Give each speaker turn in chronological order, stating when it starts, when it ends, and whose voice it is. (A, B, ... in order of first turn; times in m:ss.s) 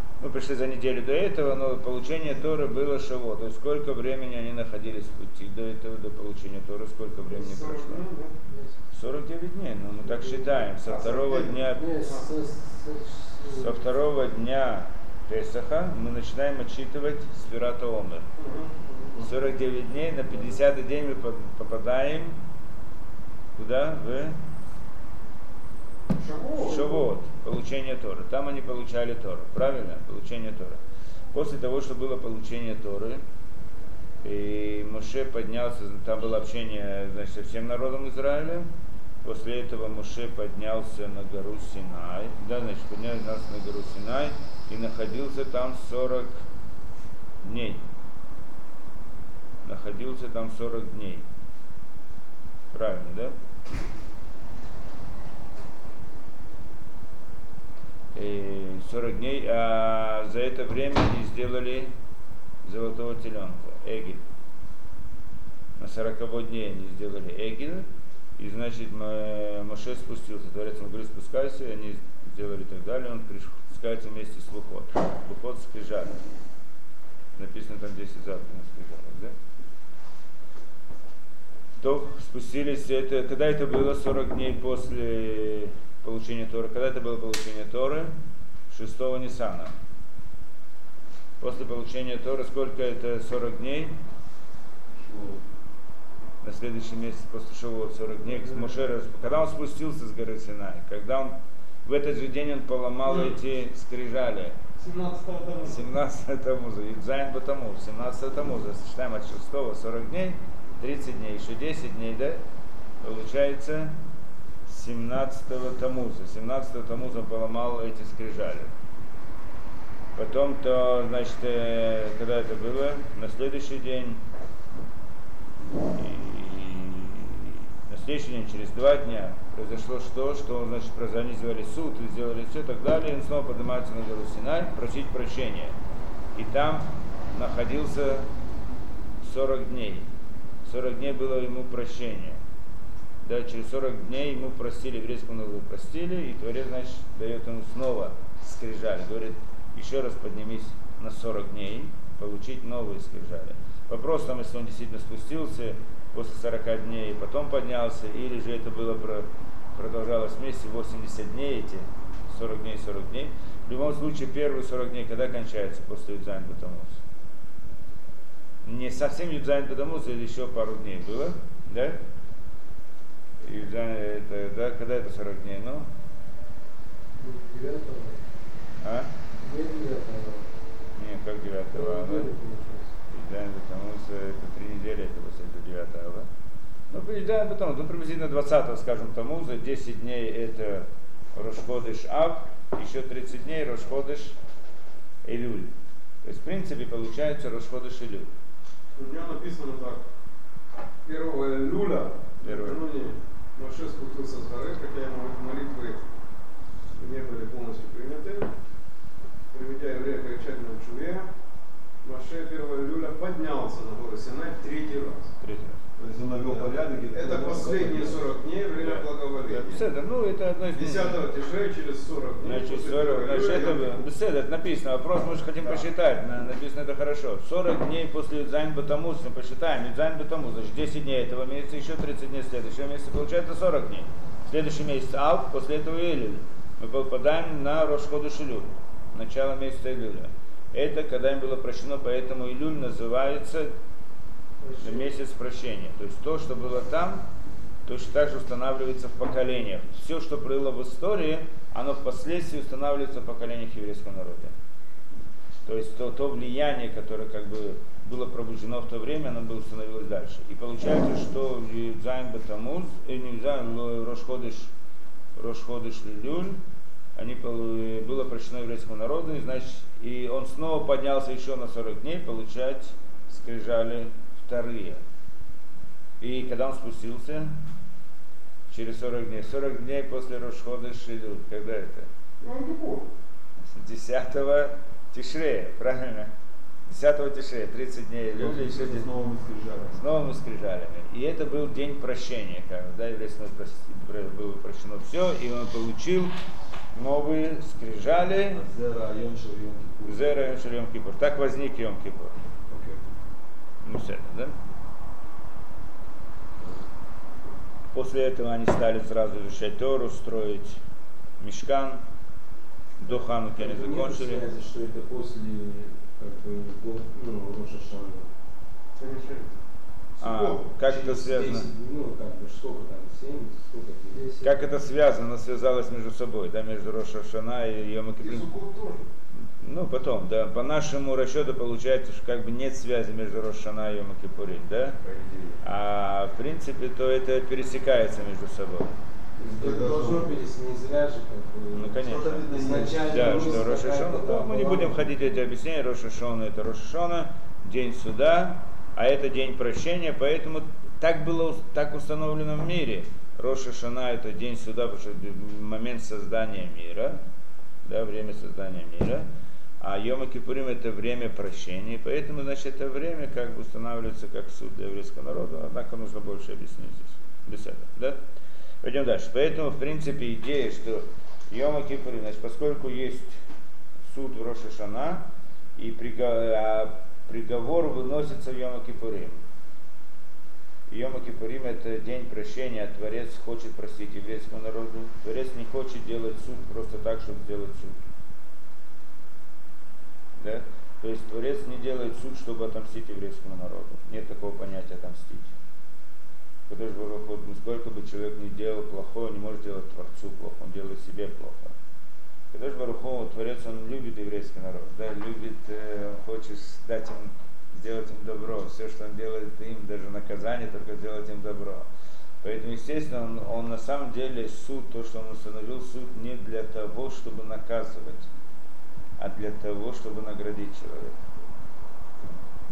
0:00.2-0:08.1 A
0:07.3-0:08.4 B
0:08.4-0:08.7 C
0:08.9-0:11.9 A
0:10.1-0:10.5 C
0:10.8-0:12.3 B
0:11.7-0:13.8 C
0:13.5-0:18.3 A
0:18.4-0:19.2 B
0:19.2-0:22.4 A
0:23.6-0:24.4 A
0:26.1-0:27.0 B
0:26.6-0:30.8 A
0:31.3-0:33.2 A
0:34.2-0:38.7 A
0:39.2-0:46.4 A
0:47.4-0:47.8 A
0:49.6-0:51.2 A
0:52.7-0:53.3 A
0:58.1-1:01.9 A
1:02.6-1:04.2 A
1:05.8-1:07.8 A
1:08.4-1:16.2 A
1:17.4-1:19.3 A
1:21.8-1:28.1 A
1:28.7-1:29.7 A
1:31.4-1:34.0 A
1:35.1-1:35.4 B
1:36.4-1:44.6 A
1:43.0-1:43.4 B
1:44.8-1:45.8 B
1:45.6-1:52.4 A
1:53.0-1:53.9 A
1:54.7-1:58.7 A
2:00.2-2:04.2 A
2:05.9-2:15.7 A
2:16.3-2:18.2 A
2:19.2-2:20.1 A
2:20.6-2:22.4 A
2:23.2-2:47.0 A
2:48.6-2:52.0 A
2:53.4-2:55.9 A
2:57.2-2:58.2 C
2:58.8-2:59.1 A
2:59.4-3:00.4 C
3:01.0-3:02.3 A
3:01.7-3:02.9 C
3:03.1-3:06.3 A
3:06.9-3:14.4 A
3:15.2-3:15.7 A
3:16.2-3:18.3 A
3:18.9-3:20.0 B
3:21.0-3:26.0 B
3:22.4-3:22.8 A
3:27.0-3:28.5 B
3:29.5-3:31.3 B
3:32.0-3:35.3 B
3:35.4-3:35.8 A
3:36.0-3:38.3 D
3:36.5-3:39.8 B
3:38.8-3:41.2 A
3:40.7-3:44.0 B
3:42.4-4:03.7 A
4:04.6-4:05.1 C
4:04.8-4:07.2 A
4:07.8-4:14.5 A
4:15.6-4:24.7 A
4:25.4-4:26.6 A
4:27.2-4:35.0 A
4:36.2-4:37.5 A
4:38.7-4:42.1 A
4:42.4-4:43.1 B
4:43.6-4:46.3 A
4:46.8-4:49.1 A
4:48.3-4:50.0 D
4:49.9-4:56.3 A
4:56.9-4:58.6 A
4:58.5-5:00.4 D
5:00.0-5:02.3 A
5:02.7-5:03.0 D
5:03.8-5:04.5 A
5:07.9-5:10.8 A
5:11.4-5:12.0 A
5:13.0-5:14.4 A
5:13.5-5:18.3 E
5:19.0-5:19.5 B
5:20.2-5:21.7 A
5:20.2-5:20.6 B
5:20.8-5:24.4 E
5:24.1-5:24.6 C
5:24.4-5:28.5 A
5:28.2-5:29.1 B
5:29.6-5:35.0 A
5:35.0-5:35.6 D
5:35.6-5:39.0 A
5:39.4-5:40.3 D
5:39.4-5:45.1 E
5:41.7-5:57.2 A
5:42.0-5:43.8 D
5:57.8-5:59.3 A
5:59.8-6:08.2 A
6:08.8-6:13.4 A
6:14.1-6:15.2 A
6:15.8-6:19.4 A
6:20.9-6:28.0 A
6:30.4-6:35.6 A
6:36.7-6:41.7 A
6:42.5-6:51.9 A
6:52.4-6:58.3 A
6:59.2-7:01.2 A